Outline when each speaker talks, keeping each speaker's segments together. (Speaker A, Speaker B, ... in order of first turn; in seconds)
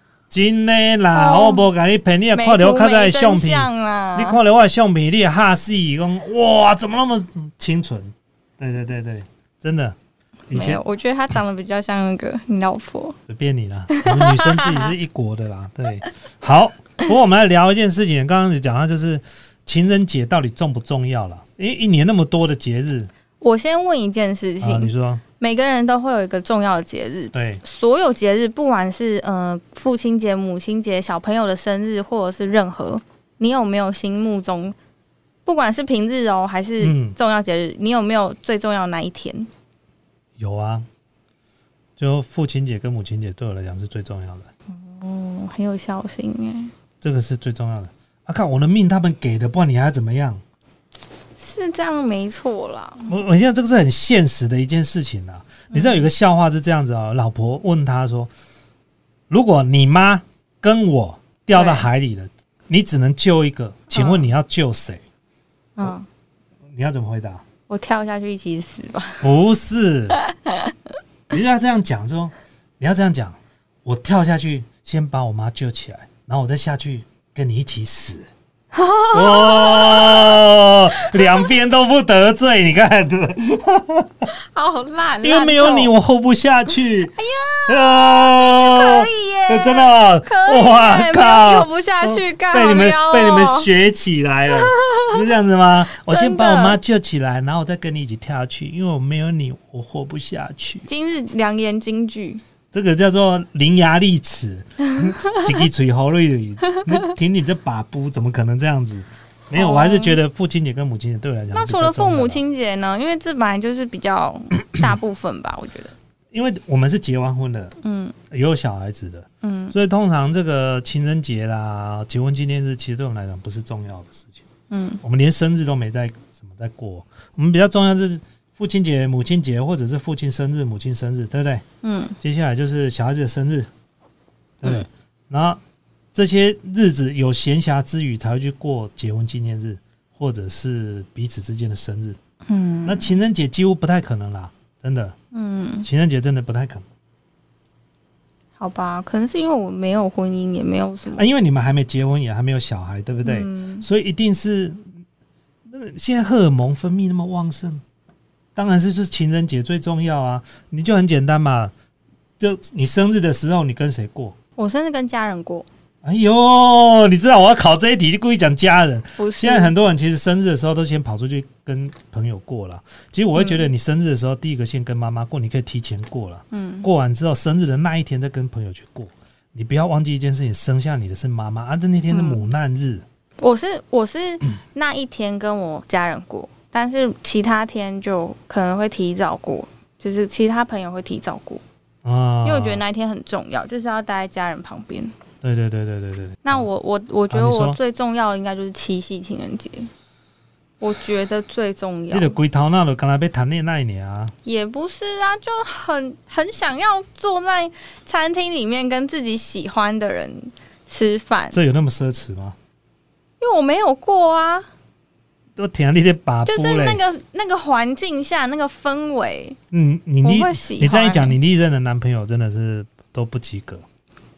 Speaker A: 0.3-9.9, 10.5-10.8, 13.3-23.1, 24.6-25.2, 27.3-27.6, 36.8-37.1, 40.4-40.9, 42.0-44.5, 47.0-50.4, 53.1-58.3, 59.3-65.0, 66.7-67.4, 69.2-70.2, 71.3-78.3, 79.1-84.3, 85.2-100.9, 102.7-112.4, 116.3-117.8, 118.3-124.4, 125.0-131.6, 132.2-133.7, 134.6-135.6, 136.1-142.2, 142.8-145.1, 145.8-146.8, 151.2-154.9, 155.7-157.8, 158.6-161.7, 162.4-164.3, 166.0-183.0, 192.0-192.8, 195.4-196.7, 197.3-197.8, 202.1-204.3, 211.5-212.6, 215.6-217.0, 219.7-223.8
Speaker B: 1.1-1.7, 2.3-4.4, 10.5-13.2, 13.9-14.9, 23.4-34.8, 35.5-39.5, 44.7-46.7, 51.4-53.1, 55.7-56.1, 61.5-61.9, 63.9-64.3, 65.8-66.1, 67.7-69.2, 70.2-70.7, 78.7-81.5, 84.3-85.9, 87.1-93.7, 94.5-95.2, 96.0-96.8, 100.8-102.4, 105.0-105.5, 109.5-110.2, 111.5-115.9, 117.8-118.2, 119.4-119.7, 124.7-125.0, 131.8-132.2, 142.4-143.1, 145.3-145.9, 148.6-151.3, 153.2-153.8, 164.6-165.7, 169.2-169.7, 173.3-173.7, 176.5-176.9, 182.1-182.4, 183.4-191.6, 192.4-195.1, 196.4-199.9, 200.8-202.3, 204.4-211.6, 213.4-214.7, 216.4-219.6, 220.2-221.3